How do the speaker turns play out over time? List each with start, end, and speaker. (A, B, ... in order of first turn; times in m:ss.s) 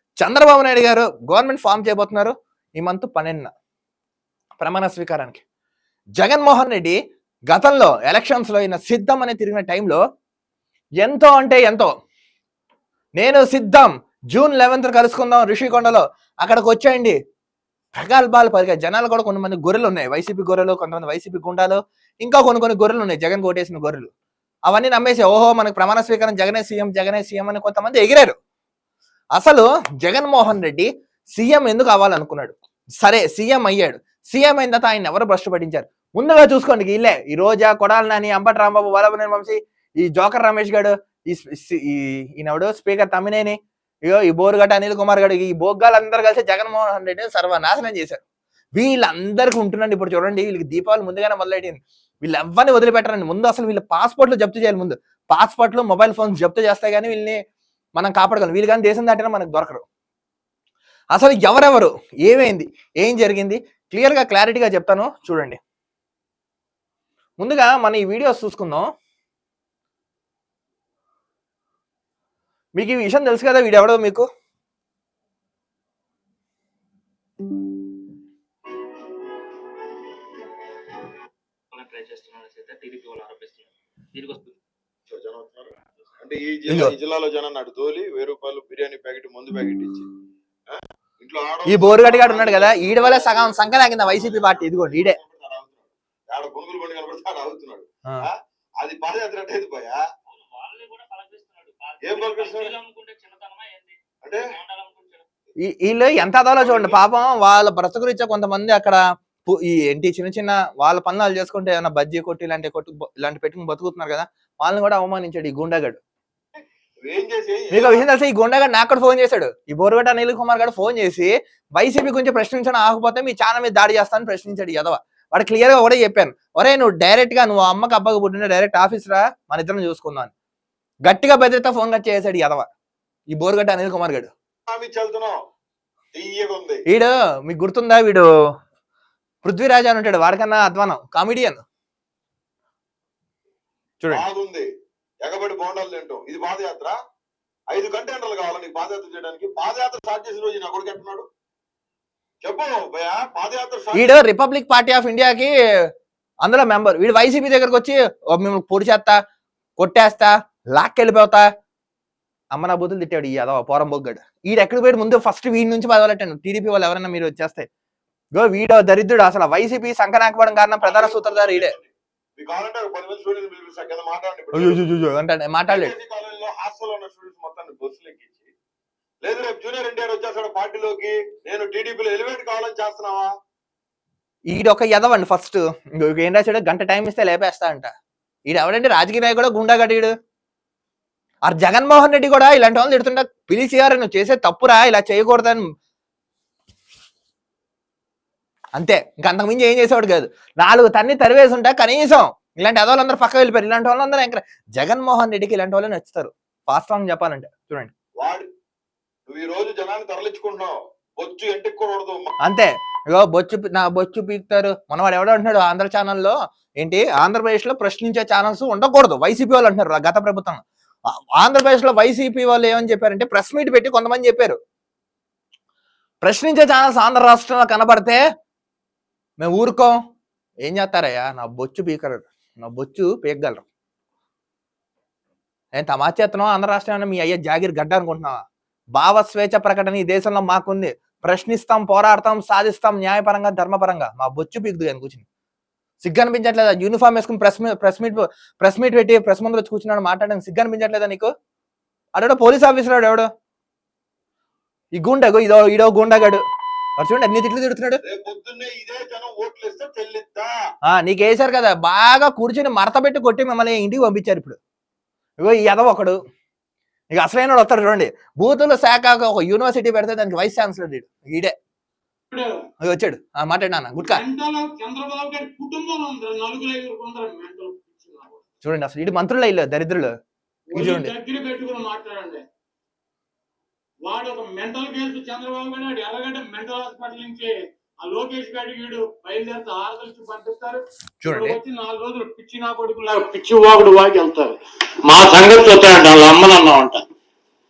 0:00.2-0:03.5 A
0:04.6-0:05.4 A
0:06.2-0:07.0 A
0:07.5-0:10.0 A
0:11.0-0:11.9 A
0:13.2-0:17.2 A
0:17.9-0:24.1 A
0:24.7-0:28.4 A
0:29.4-0:48.2 A
0:48.8-0:57.4 A
0:58.0-0:59.8 A
1:01.1-1:05.6 A
1:07.4-1:08.9 A
1:12.8-1:14.3 A
1:21.7-1:24.6 B
1:25.1-1:30.1 C
1:26.7-1:26.9 A
1:30.7-1:40.0 C
1:31.7-1:35.2 A
1:40.3-1:45.3 B
1:42.0-1:42.7 C
1:44.2-1:44.5 C
1:45.6-1:56.0 A
1:46.6-1:47.0 C
1:57.0-1:58.0 C
1:57.7-2:10.3 A
2:11.0-2:12.7 A
2:13.3-2:14.3 A
2:14.7-2:15.4 C
2:16.1-2:16.8 C
2:16.9-2:18.2 A
2:19.4-2:21.6 A
2:24.1-2:24.7 C
2:25.2-2:27.0 C
2:27.7-2:31.3 C
2:32.4-2:34.1 C
2:33.9-2:35.5 A
2:36.4-2:39.2 A
2:39.8-2:41.4 A
2:42.5-2:47.7 A
2:48.3-2:51.7 A
2:50.8-2:54.8 C
2:54.5-2:56.0 A
2:55.7-2:58.5 C
2:59.2-3:03.3 C
3:04.5-3:07.9 A
3:08.5-3:10.1 A
3:11.5-3:15.6 A
3:18.8-3:27.9 A
3:28.2-3:28.5 C
3:29.3-3:32.3 C
3:32.4-3:40.6 A
3:41.4-3:44.6 A
3:46.2-3:48.2 A
3:49.4-3:49.9 A
3:50.6-3:53.6 A
3:55.8-3:58.4 A
3:59.0-4:05.2 A
4:06.0-4:11.3 A
4:12.2-4:13.3 A
4:15.0-4:16.4 A
4:17.0-4:18.0 A
4:18.0-4:20.5 C
4:20.9-4:24.6 A
4:25.4-4:26.2 A
4:27.1-4:31.5 A
4:32.3-4:32.6 D
4:32.8-4:34.2 A
4:34.0-4:38.4 D
4:38.6-4:40.1 A
4:40.7-4:42.4 D
4:40.7-4:41.1 A
4:44.0-4:57.0 D
4:51.2-4:51.6 A